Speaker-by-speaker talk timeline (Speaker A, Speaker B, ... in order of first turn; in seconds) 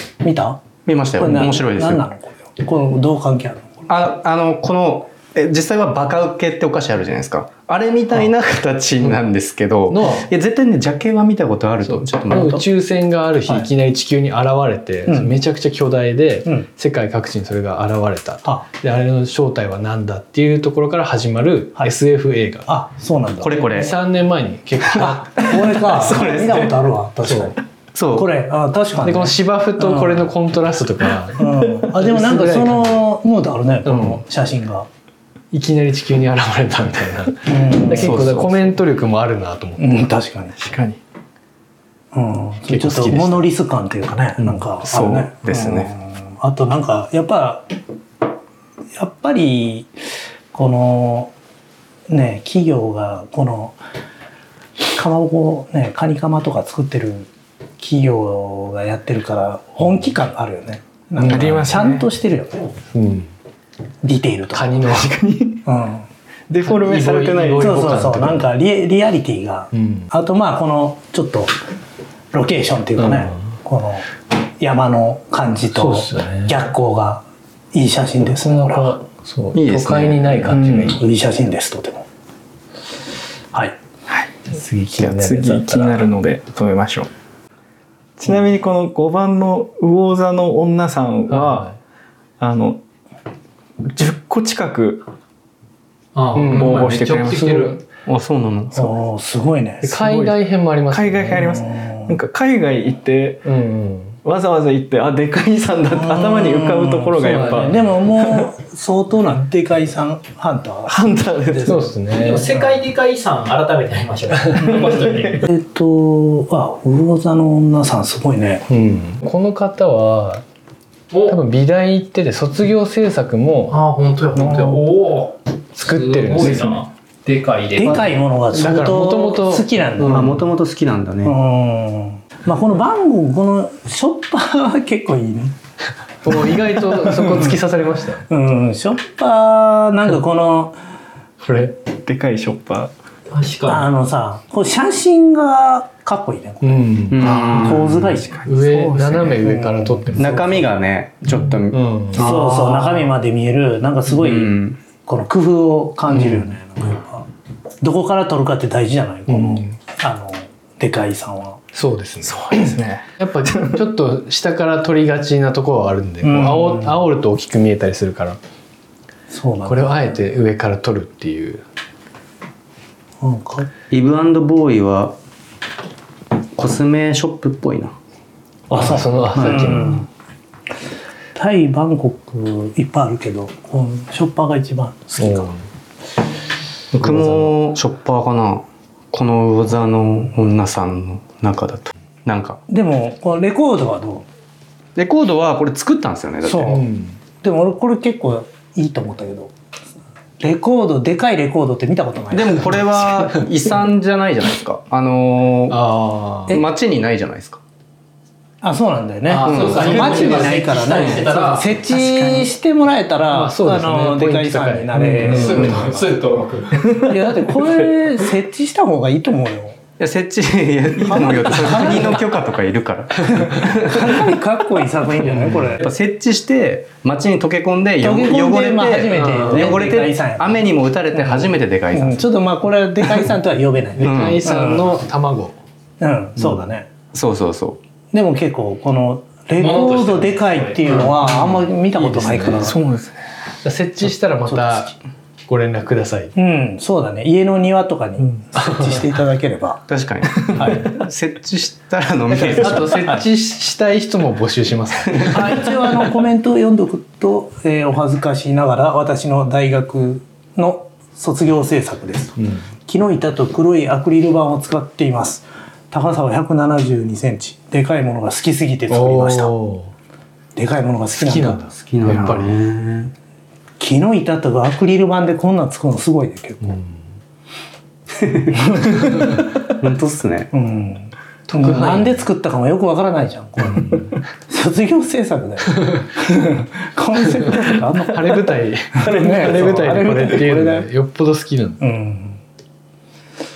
Speaker A: 0.2-3.9, 12.3-12.6, 15.1-15.3, 22.7-23.6, 24.9-27.6, 28.1-30.3, 31.4-34.9, 37.5-38.2, 39.8-40.6, 42.1-47.7, 49.0-49.9, 50.5-51.3, 52.1-53.8, 54.9-62.6, 64.0-64.9, 65.7-66.1, 67.6-71.5, 72.3-79.0, 80.9-82.0, 98.7-99.9, 101.4-102.2, 105.9-111.8, 114.6-118.7, 127.8-130.4, 131.2-135.6, 136.4-137.6, 138.3-140.8, 143.7-148.4, 149.4-150.5, 152.2-157.3, 157.8-161.6, 166.2-167.0, 169.3-169.9, 173.2-173.7, 178.7-180.1, 181.3-185.5, 192.7-194.3, 196.4-196.8, 197.4-199.5, 200.4-203.1, 208.6-215.9, 217.0-219.8, 221.0-222.2, 223.6-225.8, 228.0-234.9, 236.0-236.9, 238.1-242.8, 246.3-249.9, 250.6-251.0, 255.2-269.5, 270.6-272.4, 273.8-276.8, 278.7-279.4, 280.5-290.9, 291.8-292.4
Speaker B: 0.8-2.0, 3.9-12.6, 23.4-23.9, 25.4-26.7, 27.9-28.3, 37.9-38.6, 44.9-45.9, 79.5-80.3, 98.0-99.0, 127.8-128.1, 130.1-131.4, 147.1-148.1, 150.2-153.1, 154.1-154.8, 173.9-175.2, 176.6-177.9, 178.8-179.9, 186.9-192.6, 194.9-196.8, 202.3-205.8, 206.5-207.6, 209.4-210.3, 210.9-211.3, 220.0-224.3, 225.8-232.3, 234.0-234.4, 237.1-237.8, 249.9-253.2, 271.7-273.1, 278.1-280.5
Speaker C: 9.9-10.3, 11.8-22.7, 23.6-25.4, 27.2-27.5, 29.0-33.0, 33.9-34.2, 35.5-40.0, 42.7-43.5, 61.2-61.9, 62.9-63.3, 64.5-65.1, 66.6-68.5, 69.7-70.1, 73.0-73.5, 75.7-76.5, 78.4-81.0, 84.5-86.1, 91.3-91.8, 96.3-97.1, 99.8-101.4, 103.5-104.2, 107.2-107.8, 111.7-112.5, 114.4-114.7, 118.7-120.4, 121.3-123.8, 125.8-126.8, 128.5-130.4, 136.2-138.3, 141.4-141.8, 146.6-147.4, 148.4-150.7, 151.5-152.4, 156.1-156.5, 159.3-159.8, 161.7-168.4, 169.7-171.6, 178.7-180.0, 185.2-185.7, 186.9-187.5, 196.6-197.2, 205.7-206.6, 209.3-210.6, 213.3-216.1, 221.7-222.0, 223.3-223.6, 225.2-225.8, 229.1-229.8, 234.0-235.6, 242.0-242.7, 243.6-244.9, 245.5-246.3, 248.6-248.9, 252.3-255.7, 262.4-262.6, 268.9-269.9, 271.2-272.5, 276.6-277.0, 281.5-282.2, 283.6-284.1, 287.4-291.8
Speaker D: 40.6-41.0, 61.2-62.1, 64.8-65.7, 66.5-68.0, 80.5-81.0, 84.9-87.1, 88.2-91.7, 92.4-92.8, 93.9-95.0, 96.5-97.7, 99.9-100.3, 100.9-103.5, 104.2-107.8, 110.9-111.9, 114.6-115.4, 142.0-142.9, 147.2-149.4, 162.2-163.8, 211.9-212.5, 216.7-217.2, 242.6-243.2
Speaker E: 96.2-97.8, 112.1-115.2, 121.1-121.4, 123.7-128.1, 143.3-143.9, 209.3-211.7, 215.2-217.0, 239.6-241.3